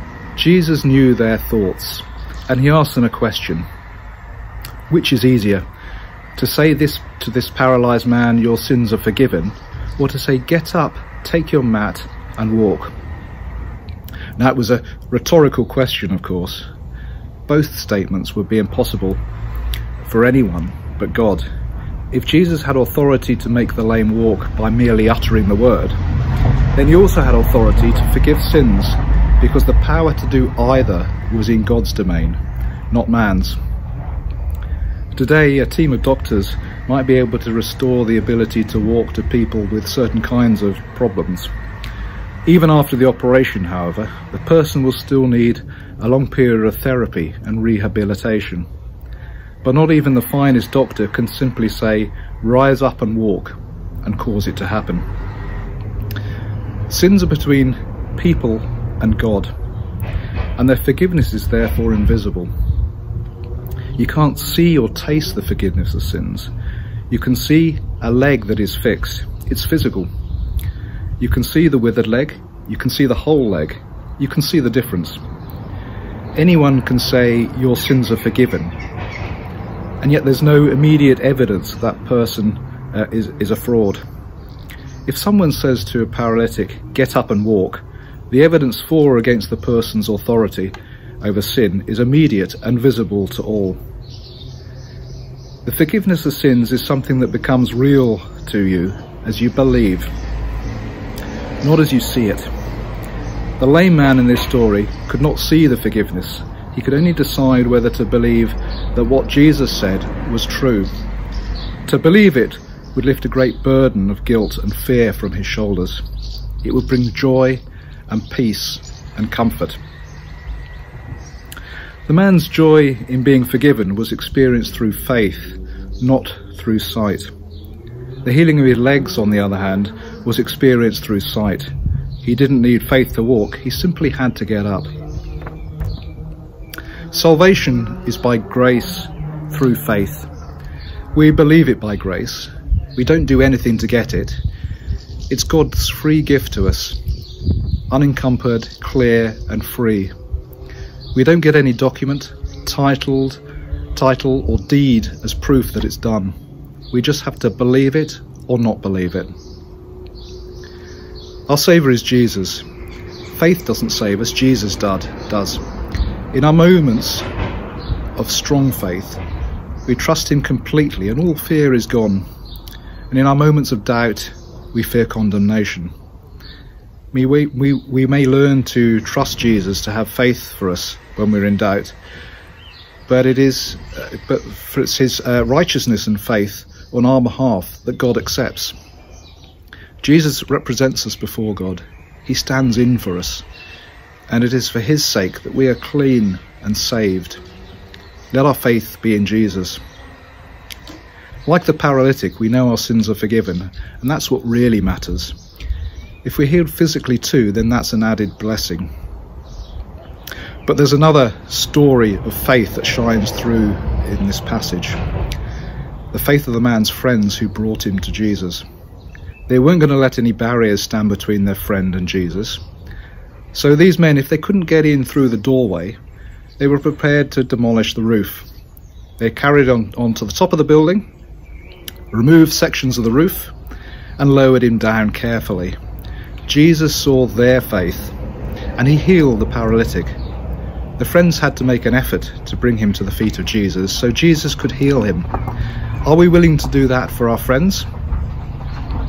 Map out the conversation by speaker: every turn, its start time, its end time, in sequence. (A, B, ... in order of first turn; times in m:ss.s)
0:00.4-0:03.7 A
0:04.9-0:05.6 A
0:06.4-0:12.9 A
0:14.4-0:16.7 A
0:17.5-0:19.2 A
0:20.0-0:21.5 A
0:22.1-0:26.0 A
0:26.8-0:32.4 A
0:32.9-0:33.6 A
0:35.1-0:41.5 A
0:42.4-0:48.7 A
0:49.6-0:55.1 A
0:56.9-0:59.5 A
1:00.6-1:02.5 A
1:04.0-1:06.5 A
1:07.1-1:10.1 A
1:11.2-1:15.2 A
1:16.4-1:18.8 A
1:20.0-1:24.0 A
1:25.0-1:33.8 A
1:35.6-1:40.1 A
1:41.6-1:42.5 A
1:43.6-1:50.9 A
1:51.8-1:56.0 A
1:56.6-1:59.8 A
2:02.1-2:07.3 A
2:08.2-2:11.7 A
2:12.2-2:14.9 A
2:17.1-2:20.3 A
2:21.1-2:24.4 A
2:25.3-2:27.0 A
2:27.9-2:30.1 A
2:31.1-2:33.4 A
2:33.9-2:36.4 A
2:36.9-2:39.3 A
2:41.5-2:42.6 A
2:43.3-2:45.6 A
2:46.3-2:47.2 A
2:48.1-2:49.2 A
2:49.8-2:52.3 A
2:53.1-2:55.9 A
2:57.1-3:02.0 A
3:03.1-3:08.7 A
3:10.0-3:13.4 A
3:14.3-3:17.4 A
3:18.3-3:19.8 A
3:21.4-3:25.4 A
3:26.2-3:28.9 A
3:30.6-3:35.0 A
3:36.1-3:38.6 A
3:39.5-3:42.6 A
3:43.5-3:46.0 A
3:46.6-3:48.5 A
3:49.2-3:51.1 A
3:52.1-3:53.5 A
3:54.2-3:55.8 A
3:56.4-3:58.1 A
3:58.8-4:00.2 A
4:01.0-4:05.3 A
4:06.0-4:07.8 A